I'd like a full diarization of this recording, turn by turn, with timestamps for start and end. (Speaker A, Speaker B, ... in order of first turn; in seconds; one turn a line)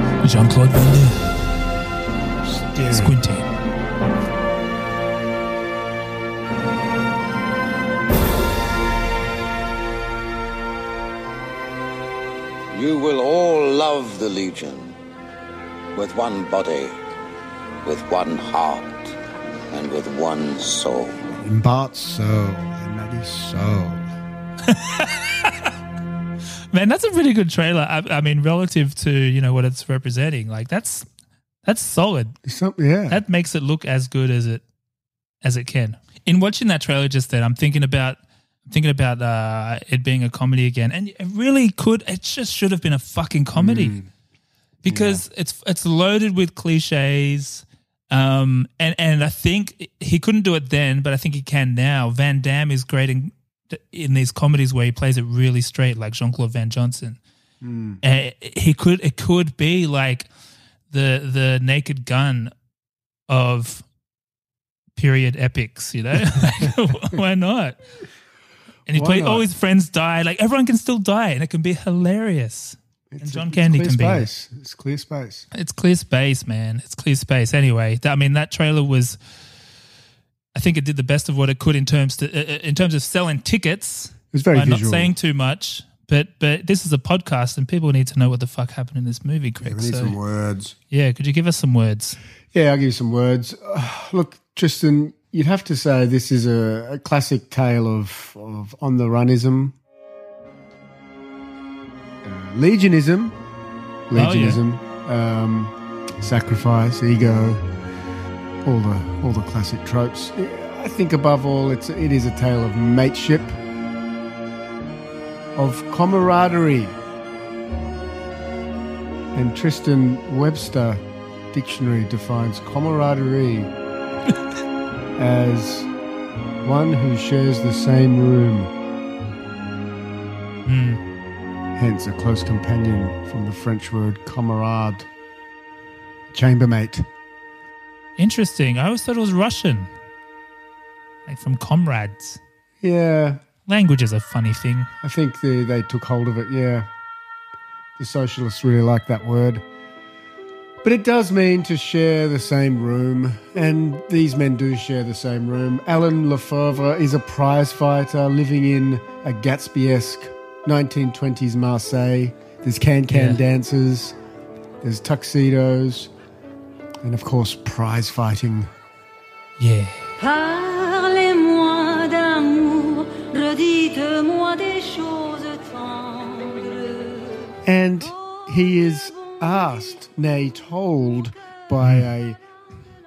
Speaker A: 0.2-1.3
Speaker B: 2.4-3.2
Speaker A: 2.8-3.5
Speaker C: 12.7-14.9
Speaker C: 15.9-16.9
Speaker C: 17.8-19.1
Speaker C: 19.7-21.2
Speaker B: 21.3-24.1
Speaker A: 24.7-25.7
Speaker A: 26.7-31.1
Speaker A: 31.6-32.4
Speaker B: 32.4-33.2
Speaker A: 33.1-34.6
Speaker A: 35.4-44.0
Speaker B: 43.5-44.1
Speaker A: 44.8-57.2
Speaker B: 44.9-45.2
Speaker B: 57.6-58.0
Speaker A: 58.0-60.3
Speaker A: 60.9-62.5
Speaker A: 63.3-63.8
Speaker A: 65.0-67.8
Speaker B: 66.3-66.7
Speaker A: 68.9-74.3
Speaker B: 68.9-69.4
Speaker B: 73.1-75.5
Speaker A: 75.5-79.2
Speaker A: 80.5-90.2
Speaker B: 84.3-85.1
Speaker B: 89.6-90.7
Speaker A: 90.9-92.2
Speaker B: 92.5-99.7
Speaker B: 102.2-103.3
Speaker B: 104.1-107.6
Speaker A: 104.1-104.6
Speaker B: 108.6-113.6
Speaker B: 115.5-117.0
Speaker B: 119.3-123.7
Speaker B: 125.2-125.9
Speaker B: 126.6-128.7
Speaker A: 130.6-131.0
Speaker B: 131.8-135.1
Speaker B: 136.3-137.1
Speaker A: 138.2-139.9
Speaker A: 141.3-142.4
Speaker B: 142.8-143.4
Speaker A: 143.7-144.9
Speaker B: 145.0-146.9
Speaker B: 148.0-149.6
Speaker B: 150.8-164.2
Speaker A: 163.1-163.4
Speaker B: 164.8-166.1
Speaker B: 167.0-168.7
Speaker A: 169.6-170.0
Speaker D: 170.2-177.2
Speaker B: 177.6-182.4
Speaker A: 181.8-182.1